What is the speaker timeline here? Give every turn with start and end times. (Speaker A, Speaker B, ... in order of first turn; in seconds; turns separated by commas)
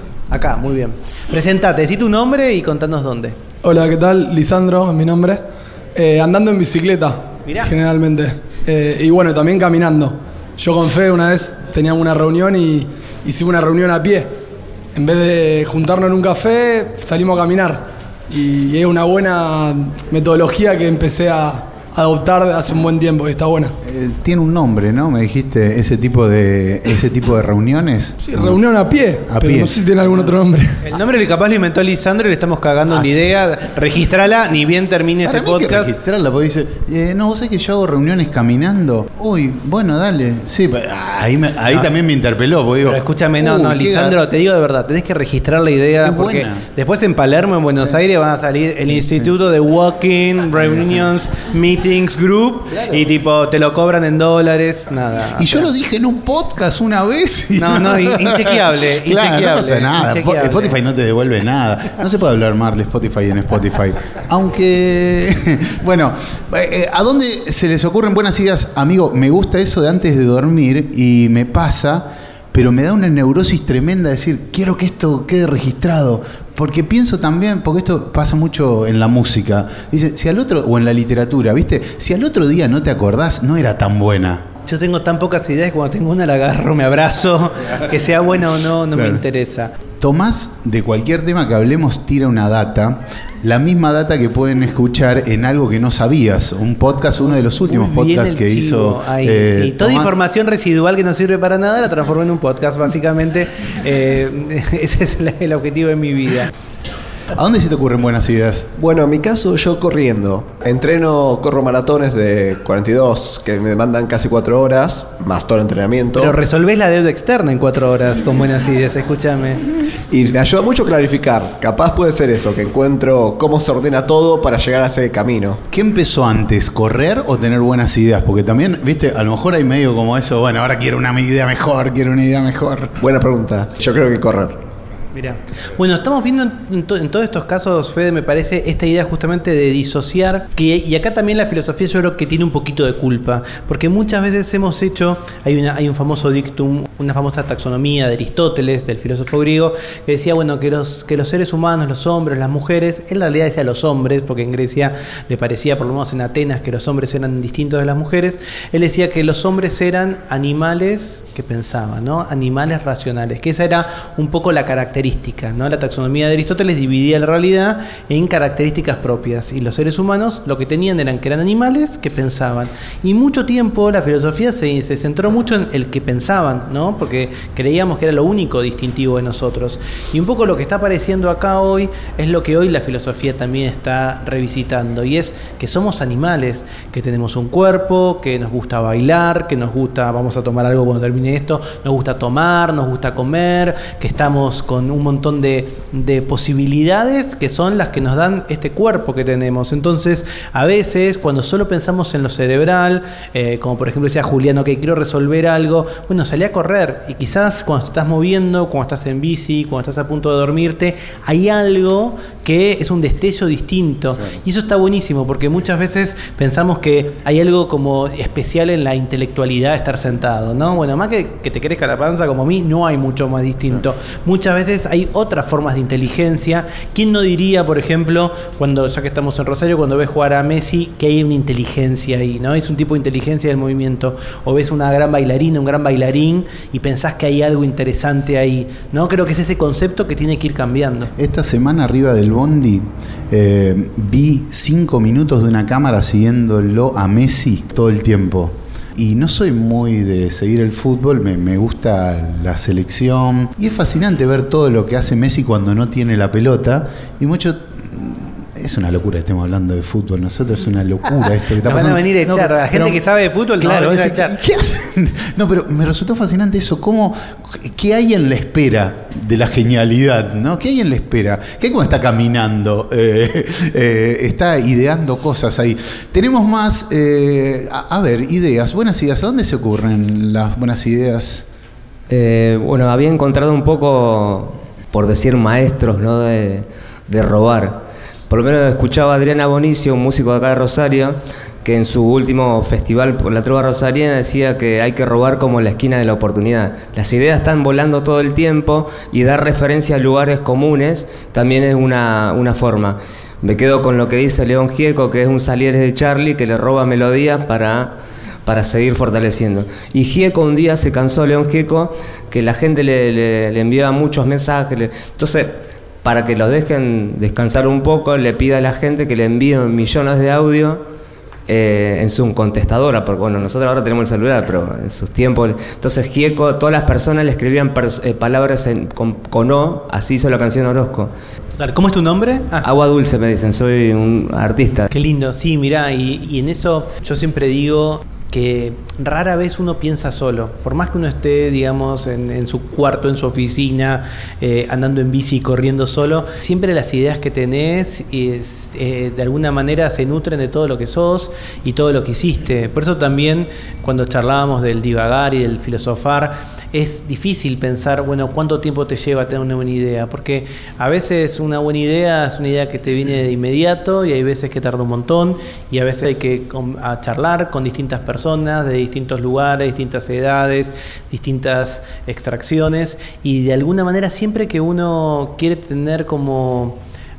Speaker A: 0.3-3.4, Speaker B: 3.6-5.4, Speaker B: 5.9-14.3, Speaker A: 7.4-7.7, Speaker B: 14.9-23.7, Speaker C: 23.8-28.6, Speaker B: 28.2-30.8, Speaker C: 29.2-29.9, Speaker A: 30.8-35.9, Speaker C: 32.9-33.3, Speaker C: 35.2-44.2, Speaker A: 42.8-55.7, Speaker C: 46.0-46.6, Speaker C: 48.9-49.3, Speaker C: 55.4-84.5, Speaker A: 57.6-60.8, Speaker A: 84.6-89.7, Speaker C: 88.9-89.2, Speaker C: 90.0-100.1, Speaker A: 97.3-106.5, Speaker C: 107.3-108.7, Speaker D: 108.8-116.4, Speaker A: 116.1-119.7, Speaker D: 120.1-125.6, Speaker C: 125.7-133.0, Speaker D: 133.0-134.6, Speaker A: 135.1-241.1, Speaker C: 241.2-263.0, Speaker A: 261.6-264.4, Speaker C: 263.6-281.4, Speaker E: 282.1-320.8, Speaker E: 321.5-331.1, Speaker A: 331.6-332.7, Speaker E: 332.6-334.9, Speaker A: 334.9-376.8